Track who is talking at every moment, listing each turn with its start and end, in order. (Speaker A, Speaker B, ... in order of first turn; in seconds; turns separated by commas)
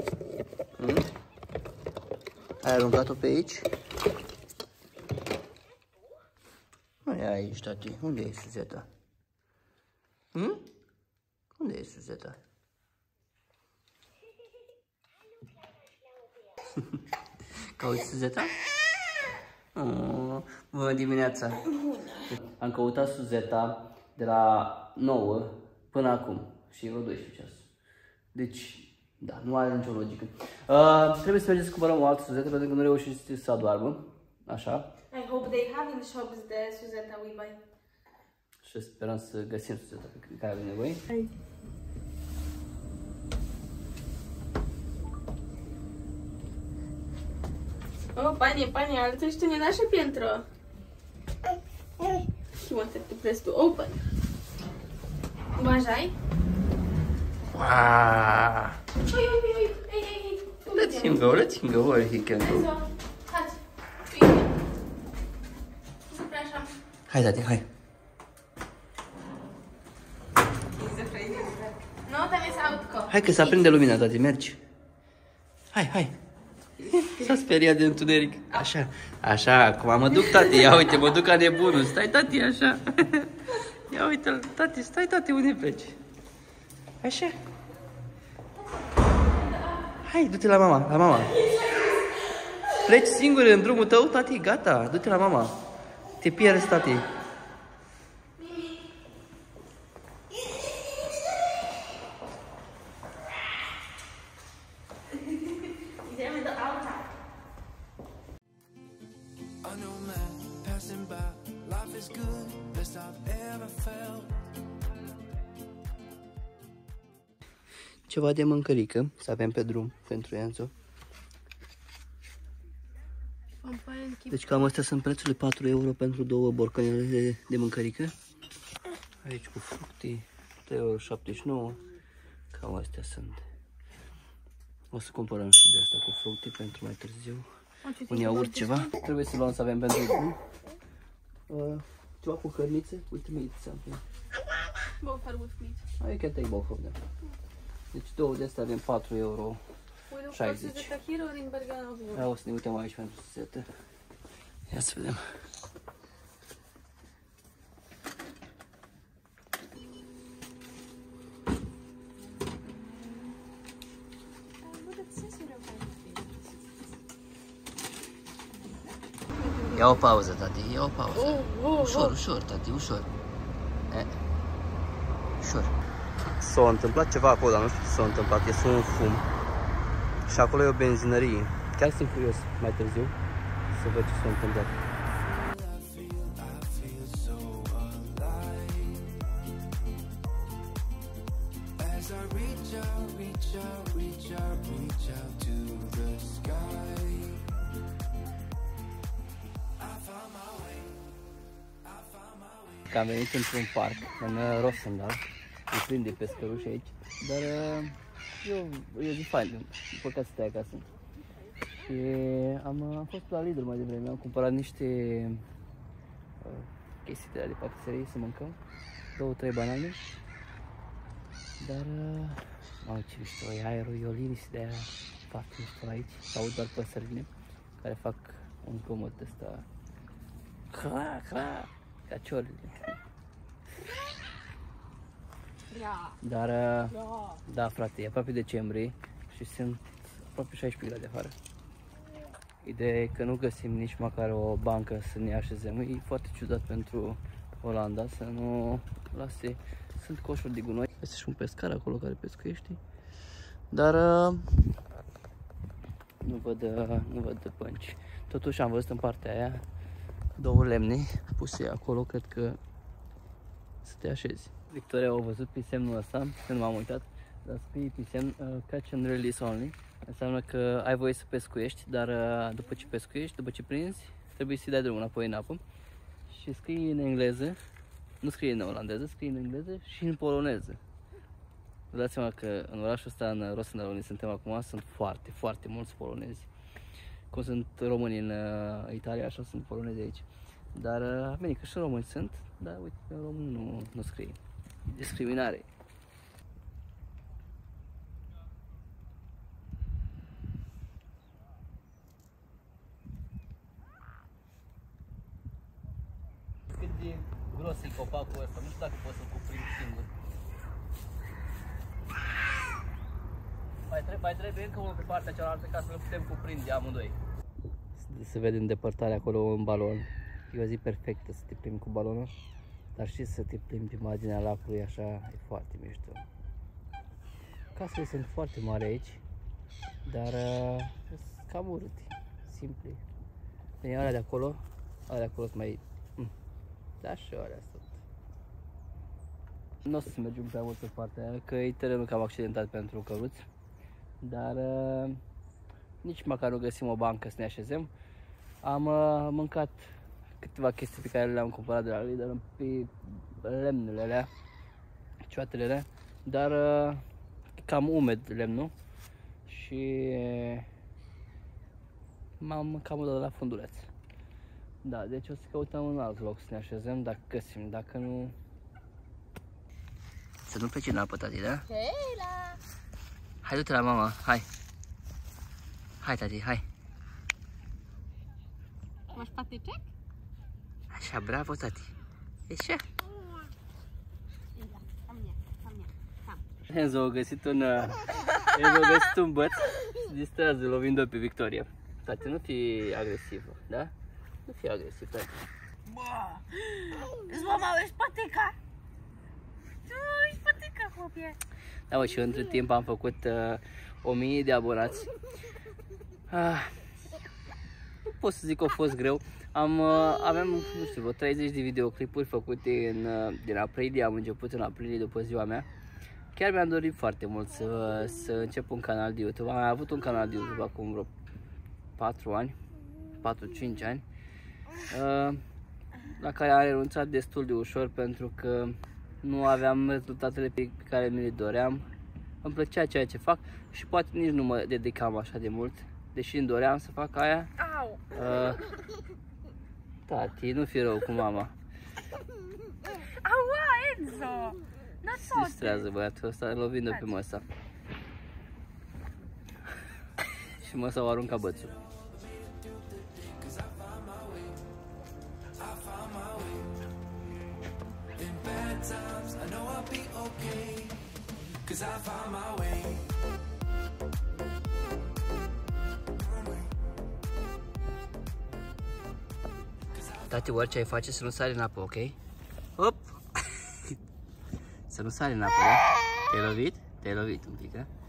Speaker A: 0.8-1.1, Speaker A: 2.6-3.7, Speaker A: 7.0-8.9, Speaker A: 10.3-10.6, Speaker A: 11.6-12.4, Speaker A: 17.8-18.6, Speaker A: 19.7-21.7, Speaker A: 22.2-27.7, Speaker A: 28.3-34.9, Speaker B: 35.1-37.6, Speaker A: 38.6-41.0, Speaker B: 48.1-50.5, Speaker B: 52.0-54.1, Speaker B: 55.5-56.1, Speaker A: 57.5-58.8, Speaker B: 59.0-61.3, Speaker A: 60.7-62.7, Speaker B: 62.3-64.5, Speaker B: 66.1-66.7, Speaker A: 67.1-67.7, Speaker B: 70.7-73.5, Speaker A: 73.1-74.6, Speaker A: 75.7-76.1, Speaker A: 76.8-86.0, Speaker A: 87.0-87.4, Speaker B: 89.3-89.9, Speaker A: 90.0-91.5, Speaker B: 91.4-92.4, Speaker A: 92.7-95.6, Speaker A: 96.2-97.1, Speaker B: 98.4-98.8, Speaker B: 105.2-107.0, Speaker C: 109.6-114.3, Speaker A: 118.1-120.7, Speaker B: 123.6-124.7, Speaker A: 124.3-128.1, Speaker A: 129.2-131.8, Speaker A: 132.5-133.4, Speaker A: 134.9-137.4, Speaker B: 137.8-138.9, Speaker A: 138.1-140.4, Speaker A: 141.5-144.0, Speaker B: 145.0-145.8, Speaker A: 146.0-147.0, Speaker A: 147.9-149.6, Speaker B: 150.1-152.3, Speaker A: 150.3-150.9, Speaker A: 152.1-153.7, Speaker A: 154.7-155.2, Speaker B: 164.6-166.6, Speaker B: 169.5-169.8, Speaker A: 169.7-173.1, Speaker B: 171.3-172.1, Speaker A: 175.4-175.7, Speaker A: 176.4-179.2, Speaker A: 180.3-183.2, Speaker A: 183.7-184.8, Speaker C: 185.4-189.1, Speaker C: 191.8-197.4, Speaker C: 200.2-200.8, Speaker A: 202.9-210.9, Speaker A: 211.7-215.4, Speaker A: 216.4-218.6, Speaker A: 219.2-220.1, Speaker A: 221.6-227.3, Speaker A: 227.8-229.7, Speaker A: 230.7-232.8, Speaker B: 235.7-236.1, Speaker A: 236.2-241.3, Speaker A: 242.6-252.8, Speaker A: 253.7-254.5, Speaker A: 256.2-259.6, Speaker A: 260.4-262.6, Speaker A: 263.8-275.6, Speaker A: 276.3-277.6, Speaker A: 278.2-280.8, Speaker A: 281.9-286.5, Speaker A: 287.3-294.4, Speaker A: 294.9-295.7, Speaker A: 306.7-310.1, Speaker A: 313.9-317.2, Speaker A: 318.0-322.3, Speaker A: 323.0-326.2, Speaker A: 327.8-329.2, Speaker A: 330.1-333.0, Speaker A: 333.8-336.3, Speaker A: 337.0-338.0, Speaker A: 339.8-343.4, Speaker A: 344.2-345.2, Speaker A: 346.0-347.9, Speaker A: 348.6-349.9, Speaker A: 350.4-354.3, Speaker A: 355.3-357.0, Speaker A: 357.6-358.7, Speaker A: 359.5-360.7, Speaker A: 362.4-363.9, Speaker A: 364.8-368.4, Speaker A: 370.5-371.7, Speaker B: 371.7-372.6, Speaker A: 373.4-374.5, Speaker A: 376.0-376.7, Speaker B: 379.1-379.8, Speaker A: 380.9-381.9, Speaker A: 382.5-382.8, Speaker B: 384.6-386.4, Speaker A: 386.7-393.9, Speaker A: 394.5-395.4, Speaker A: 397.4-398.2, Speaker B: 399.9-401.4, Speaker A: 401.9-405.1, Speaker A: 406.3-406.8, Speaker A: 408.1-415.7, Speaker A: 416.3-421.1, Speaker A: 422.0-422.6, Speaker A: 423.2-424.0, Speaker A: 424.9-425.4, Speaker A: 426.0-431.9, Speaker A: 432.4-437.5, Speaker A: 438.1-438.6, Speaker A: 440.1-441.5, Speaker B: 443.1-445.6, Speaker A: 445.1-447.4, Speaker A: 450.5-451.8, Speaker C: 453.1-454.6, Speaker C: 455.6-456.7, Speaker C: 458.2-460.9, Speaker C: 461.7-463.0, Speaker A: 470.2-472.2, Speaker A: 472.8-473.9, Speaker A: 474.9-477.9